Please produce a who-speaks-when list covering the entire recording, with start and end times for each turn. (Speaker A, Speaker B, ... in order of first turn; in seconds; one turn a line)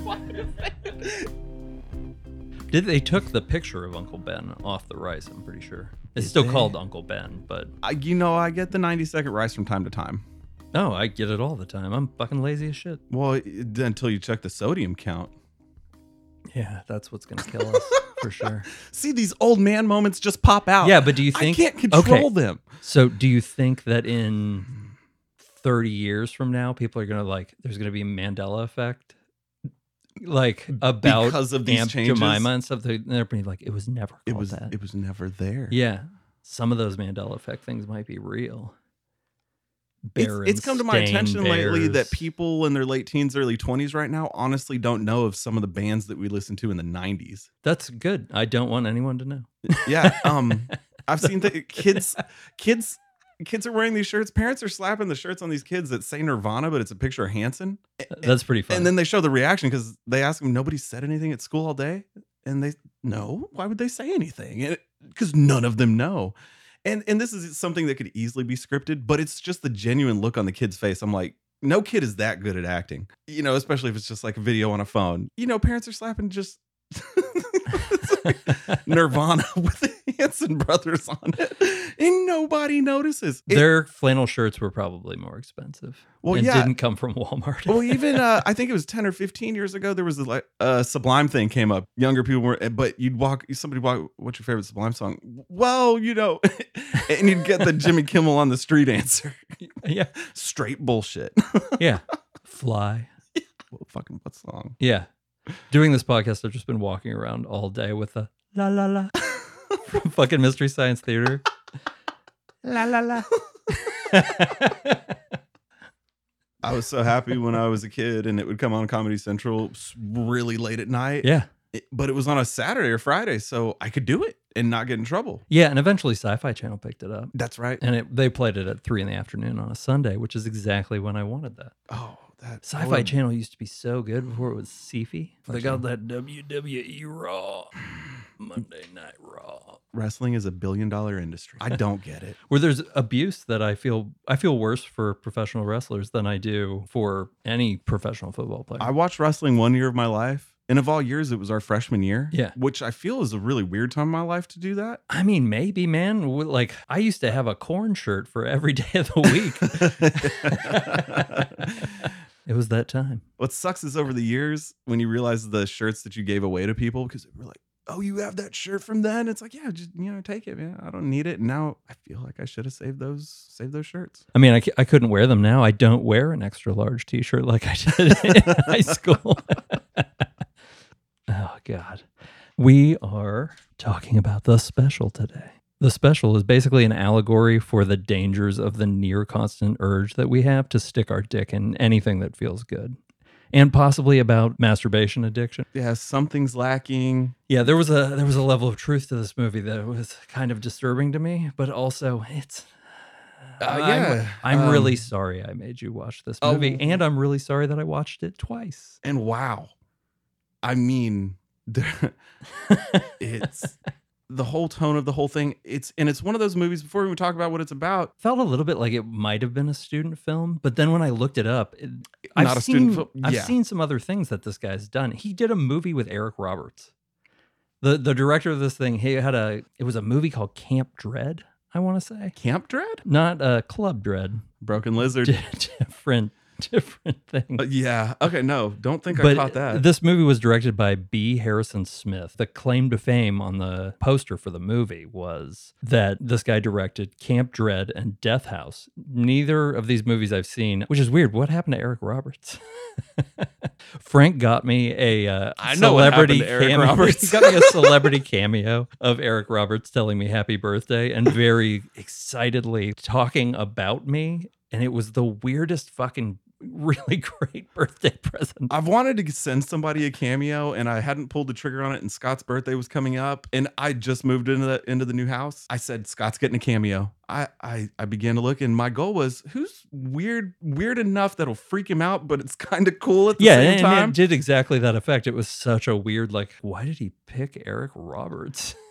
Speaker A: 0.3-1.3
Speaker B: 2.7-7.7
Speaker A: 6.2-6.8
Speaker A: 7.8-10.2
Speaker B: 10.7-13.0
Speaker A: 13.1-15.3
Speaker B: 16.5-18.7
Speaker A: 17.7-22.6
Speaker B: 20.8-24.7
Speaker B: 25.5-29.1
Speaker B: 30.2-34.7
Speaker A: 30.8-32.5
Speaker A: 34.3-35.8
Speaker B: 35.7-38.8
Speaker B: 40.1-42.2
Speaker A: 40.2-47.5
Speaker B: 47.6-52.0
Speaker A: 49.7-83.7
Speaker B: 58.1-58.9
Speaker B: 77.8-78.8
Speaker B: 83.5-88.2
Speaker A: 86.2-86.7
Speaker A: 87.7-99.6
Speaker B: 99.6-100.2
Speaker A: 100.2-101.8
Speaker B: 101.8-103.1
Speaker A: 103.7-104.8
Speaker B: 104.8-105.1
Speaker B: 105.7-109.2
Speaker B: 109.8-111.5
Speaker B: 112.6-115.2
Speaker A: 113.1-113.4
Speaker A: 116.6-125.4
Speaker B: 121.2-121.5
Speaker B: 125.5-131.7
Speaker A: 127.3-127.8
Speaker A: 131.9-133.2
Speaker B: 132.6-137.8
Speaker A: 135.5-135.8
Speaker B: 138.4-139.8
Speaker A: 139.9-142.4
Speaker B: 142.5-148.9
Speaker A: 148.8-155.0
Speaker B: 155.1-163.2
Speaker A: 159.7-162.1
Speaker A: 163.4-174.2
Speaker B: 174.3-180.3
Speaker A: 178.3-178.8
Speaker B: 181.3-193.0
Speaker B: 193.5-195.7
Speaker A: 195.7-197.4
Speaker B: 197.5-202.7
Speaker B: 203.5-209.0
Speaker A: 203.6-205.0
Speaker A: 206.4-207.0
Speaker A: 209.0-209.7
Speaker A: 210.6-212.2
Speaker B: 212.5-213.5
Speaker A: 213.2-213.8
Speaker A: 214.3-218.1
Speaker B: 218.2-226.9
Speaker A: 222.3-223.6
Speaker B: 227.8-232.4
Speaker A: 232.4-233.0
Speaker B: 233.1-234.5
Speaker A: 234.6-235.3
Speaker B: 235.2-237.7
Speaker A: 237.6-239.8
Speaker B: 239.1-252.6
Speaker B: 253.2-268.7
Speaker A: 255.6-258.1
Speaker A: 268.7-284.2
Speaker B: 283.4-288.8